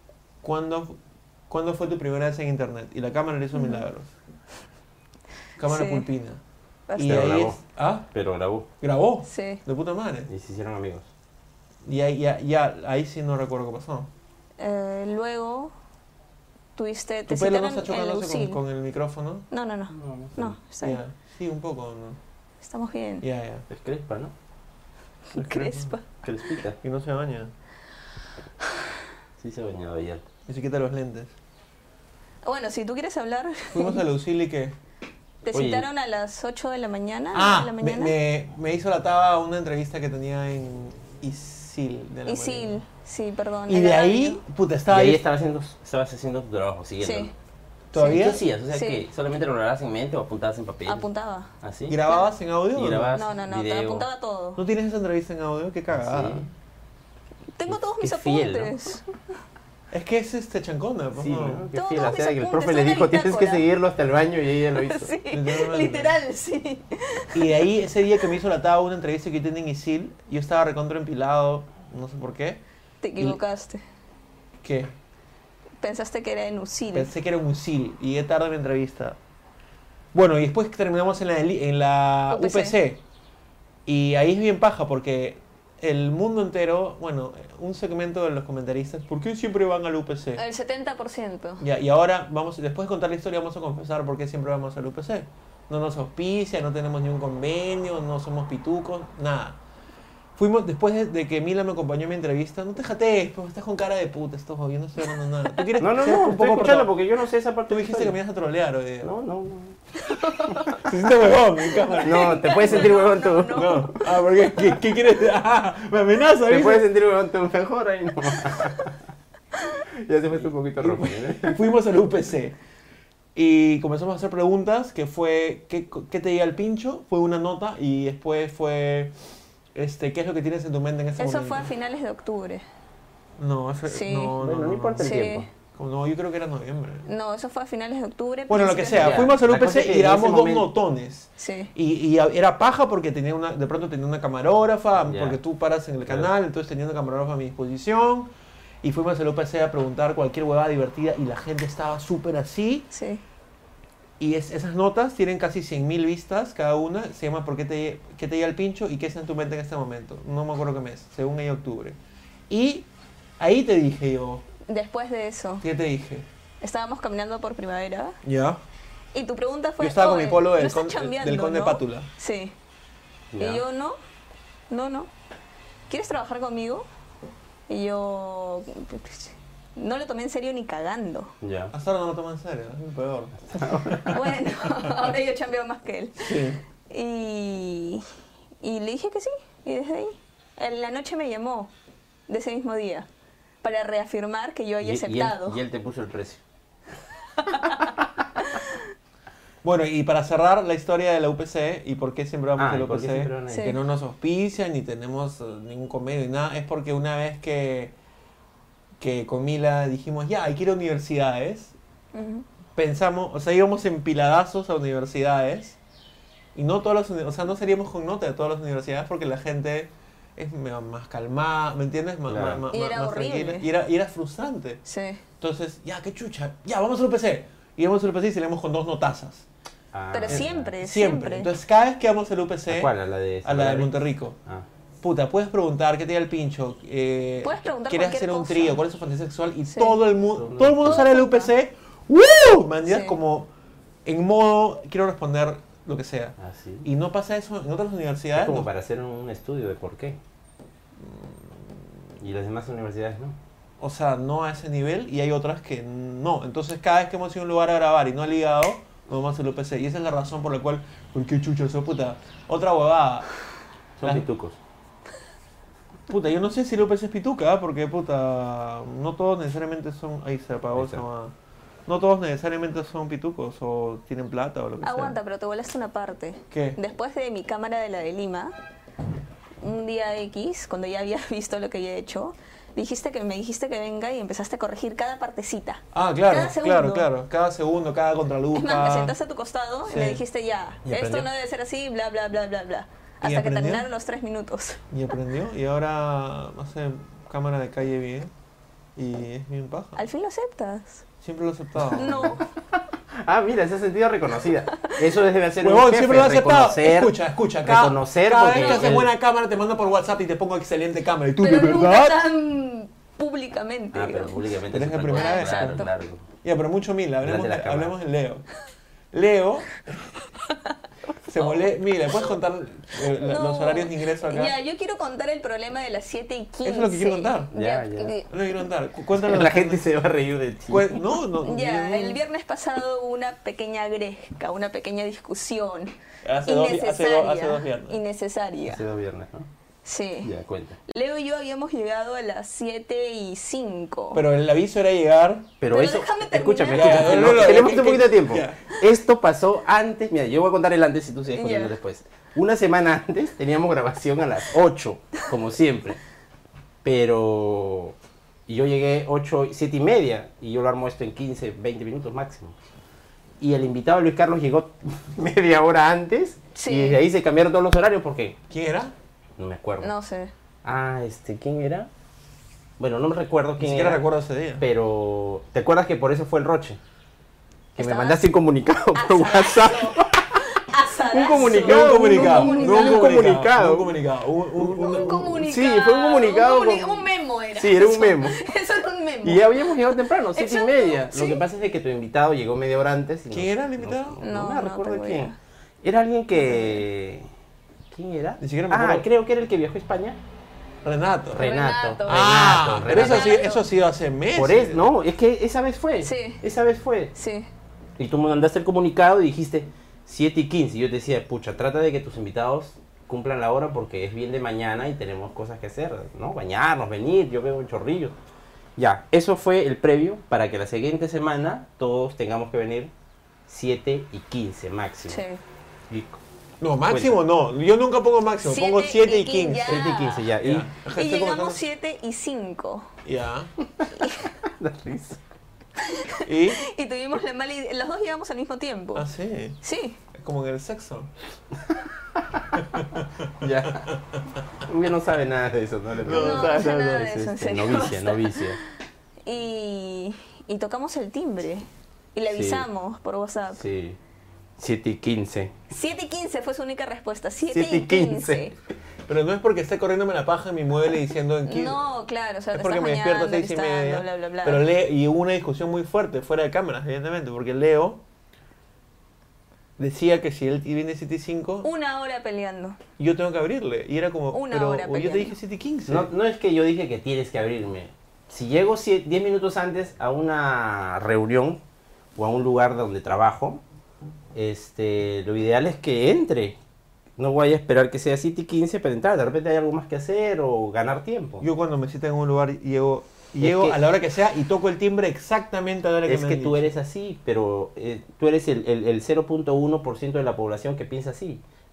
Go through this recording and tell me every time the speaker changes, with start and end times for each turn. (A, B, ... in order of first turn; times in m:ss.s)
0:00.4-0:04.1 A
0:03.6-0:03.8 B
0:05.6-0:06.4 A
0:05.7-0:06.1 B
0:06.9-0:07.2 B
0:07.0-0:08.1 A
0:07.0-0:07.6 C
0:08.1-0:08.7 C
0:08.8-0:10.3 A
0:09.2-0:09.6 B
0:10.3-0:11.1 C
0:11.8-0:14.1 A
0:14.6-0:15.7 B
0:16.8-0:18.6 B
0:17.3-0:19.5 A
0:19.5-0:21.0 B
0:19.9-0:20.6 C
0:20.8-0:22.2 A
0:22.6-0:23.2 B
0:23.2-0:23.6 A
0:23.7-0:24.3 C
0:25.3-0:26.0 B
0:25.3-0:26.0 A
0:26.2-0:26.8 C
0:26.8-0:27.5 A
0:29.4-0:30.2 C
0:30.5-0:31.3 A
0:32.4-0:34.0 B
0:33.7-0:34.8 A
0:35.4-0:38.2 B
0:35.5-0:35.9 C
0:37.3-0:42.8 A
0:42.2-0:44.4 B
0:43.7-0:45.2 A
0:44.9-0:47.3 C
0:47.0-0:47.3 B
0:47.9-0:48.4 A
0:48.0-0:49.0 B
0:48.0-0:51.1 C
0:50.8-0:51.5 B
0:51.6-0:52.0 C
0:51.9-0:53.2 A
0:52.7-0:54.1 C
0:53.1-0:54.6 B
0:54.6-0:56.5 A
0:55.9-0:56.5 C
0:57.6-0:59.1 B
0:57.7-0:58.9 C
0:59.9-1:01.7 A
1:01.2-1:05.1 C
1:01.7-1:03.6 B
1:04.8-1:07.6 B
1:05.3-1:06.2 A
1:07.3-1:12.6 A
1:13.0-1:13.8 B
1:14.6-1:14.9 A
1:15.8-1:17.1 B
1:16.9-1:19.2 A
1:20.1-1:23.0 A
1:22.3-1:22.8 B
1:23.8-1:30.4 A
1:30.4-1:31.6 B
1:31.6-1:39.6 A
1:40.4-1:46.9 A
1:45.8-1:48.2 C
1:47.7-1:49.1 A
1:49.0-1:49.8 C
1:50.0-1:50.8 B
1:50.4-1:50.8 C
1:50.8-1:52.9 A
1:51.7-1:53.9 B
1:52.0-1:54.1 C
1:53.5-1:56.9 A
1:56.5-1:58.9 C
2:00.0-2:01.7 C
2:00.8-2:02.6 A
2:03.3-2:09.1 A
2:09.7-2:11.7 A
2:11.2-2:12.6 B
2:13.4-2:15.1 A
2:13.9-2:14.4 B
2:14.4-2:15.5 C
2:15.0-2:15.5 B
2:15.7-2:17.0 A
2:17.0-2:19.2 B
2:18.5-2:28.3 A
2:18.9-2:20.7 C
2:21.4-2:21.7 B
2:25.0-2:25.4 C
2:28.8-2:32.9 A
2:32.9-2:33.2 B
2:34.2-2:42.0 A
2:42.5-2:42.9 A
2:43.4-2:44.4 A
2:44.7-2:45.6 B
2:45.6-2:46.2 A
2:46.6-2:48.2 B
2:48.2-2:48.6 A
2:49.1-2:52.5 B
2:49.8-2:52.1 A
2:53.3-2:53.6 C
2:53.4-2:54.0 B
2:54.7-2:55.1 B
2:55.9-2:56.9 B
2:57.7-3:01.3 B
3:01.4-3:01.7 C
3:01.7-3:04.3 A
3:03.5-3:04.2 C
3:04.0-3:06.4 B
3:06.2-3:06.6 A
3:06.9-3:08.0 B
3:08.6-3:11.7 B
3:12.3-3:13.1 B
3:13.6-3:15.6 B
3:14.8-3:16.4 C
3:17.4-3:18.8 B
3:19.6-3:27.9 A
3:22.6-3:23.8 C
3:23.5-3:23.8 B
3:29.0-3:31.8 A
3:32.1-3:32.4 B
3:32.8-3:35.8 A
3:36.5-3:44.8 A
3:42.3-3:42.6 C
3:42.7-3:43.7 B
3:44.8-3:45.2 B
3:45.4-3:49.5 A
3:49.9-3:50.7 C
3:50.1-3:51.5 B
3:50.3-3:52.9 A
3:52.7-3:54.6 C
3:53.4-3:54.4 A
3:55.0-4:03.5 A
3:57.4-3:58.8 B
3:59.7-4:00.0 B
4:00.3-4:01.0 C
4:00.8-4:01.5 B
4:02.8-4:03.2 B
4:04.0-4:08.7 A
4:06.4-4:06.9 C
4:08.3-4:10.2 C
4:11.0-4:11.6 A
4:12.2-4:13.4 C
4:13.8-4:23.3 A
4:24.0-4:24.6 C
4:26.1-4:31.3 A
4:30.8-4:31.0 C
4:31.9-4:35.2 A
4:34.8-4:38.5 B
4:36.5-4:36.8 A
4:39.6-4:47.1 B
4:45.9-4:49.2 A
4:48.5-4:54.8 B
4:49.8-4:50.2 A
4:50.8-4:51.3 C
4:53.2-4:53.9 A
4:54.9-4:58.3 A
4:59.0-5:00.0 A
5:00.0-5:01.0 B
5:01.2-5:02.4 A
5:01.9-5:02.4 B
5:03.2-5:09.1 C
5:05.6-5:12.2 A
5:08.5-5:08.9 B
5:11.4-5:14.4 B
5:13.9-5:16.2 C
5:14.7-5:15.8 A
5:15.1-5:15.9 B
5:16.4-5:18.4 A
5:17.2-5:17.9 C
5:19.1-5:19.8 A
5:20.5-5:20.8 B
5:21.3-5:24.6 A
5:21.4-5:22.3 B
5:23.2-5:28.3 B
5:26.6-5:27.5 A
5:27.5-5:28.2 C
5:28.3-5:29.8 A
5:29.1-5:31.0 C
5:30.7-5:32.2 A
5:31.4-5:35.9 B
5:36.2-5:38.0 A
5:36.4-5:38.8 B
5:38.7-5:39.5 C
5:39.8-5:40.3 B
5:40.2-5:40.8 C
5:40.9-5:44.2 B
5:44.1-5:45.5 A
5:45.6-5:56.0 C
5:45.7-5:47.9 B
5:46.7-5:48.6 A
5:51.3-5:51.7 B
5:56.8-5:58.0 C
5:58.5-6:02.5 C
6:03.4-6:08.4 C
6:06.5-6:07.0 B
6:08.5-6:08.9 A
6:09.4-6:09.9 C
6:09.8-6:10.3 B
6:10.6-6:11.9 C
6:12.8-6:14.0 C
6:13.6-6:14.6 A
6:14.6-6:16.8 C
6:17.8-6:20.5 C
6:17.8-6:18.3 B
6:18.9-6:23.1 B
6:21.1-6:24.0 C
6:21.3-6:25.4 A
6:24.6-6:28.4 C
6:24.6-6:31.4 B
6:29.2-6:37.3 C
6:33.3-6:34.2 A
6:34.2-6:35.4 B
6:36.4-6:36.8 B
6:37.9-6:40.2 C
6:38.4-6:39.1 A
6:40.8-6:41.5 A
6:41.3-6:43.4 C
6:41.4-6:43.6 B
6:42.1-6:44.8 A
6:44.3-6:47.1 C
6:46.0-6:46.4 B
6:47.1-6:47.5 B
6:48.0-6:58.1 C
6:58.8-7:02.9 C
7:03.5-7:05.2 C
7:05.1-7:05.4 B
7:05.9-7:06.2 C
7:06.6-7:09.8 A
7:06.9-7:07.2 C
7:08.4-7:10.3 B
7:09.6-7:10.7 C
7:10.4-7:11.6 A
7:10.9-7:12.9 B
7:13.0-7:13.5 A
7:13.8-7:15.2 C
7:14.0-7:14.3 B
7:15.8-7:19.1 B
7:16.2-7:16.6 A
7:18.9-7:19.6 A
7:19.6-7:20.0 B
7:20.1-7:21.1 A
7:22.2-7:22.6 C
7:22.6-7:23.1 A
7:23.4-7:23.9 C
7:24.6-7:28.6 C
7:26.0-7:27.1 A
7:26.1-7:28.4 B
7:29.2-7:33.6 B
7:32.3-7:32.6 C
7:33.5-7:34.0 C
7:34.6-7:35.5 C
7:35.7-7:38.5 B
7:37.5-7:38.5 C
7:39.1-7:41.8 A
7:41.4-7:44.7 B
7:42.5-7:48.0 A
7:49.8-7:51.7 A
7:51.6-7:52.8 B
7:53.0-7:56.1 A
7:54.3-7:55.3 B
7:55.9-8:01.6 C
8:02.2-8:03.6 C
8:04.3-8:06.6 C
8:07.2-8:11.4 C
8:11.4-8:16.7 A
8:13.4-8:13.8 C
8:16.0-8:21.4 C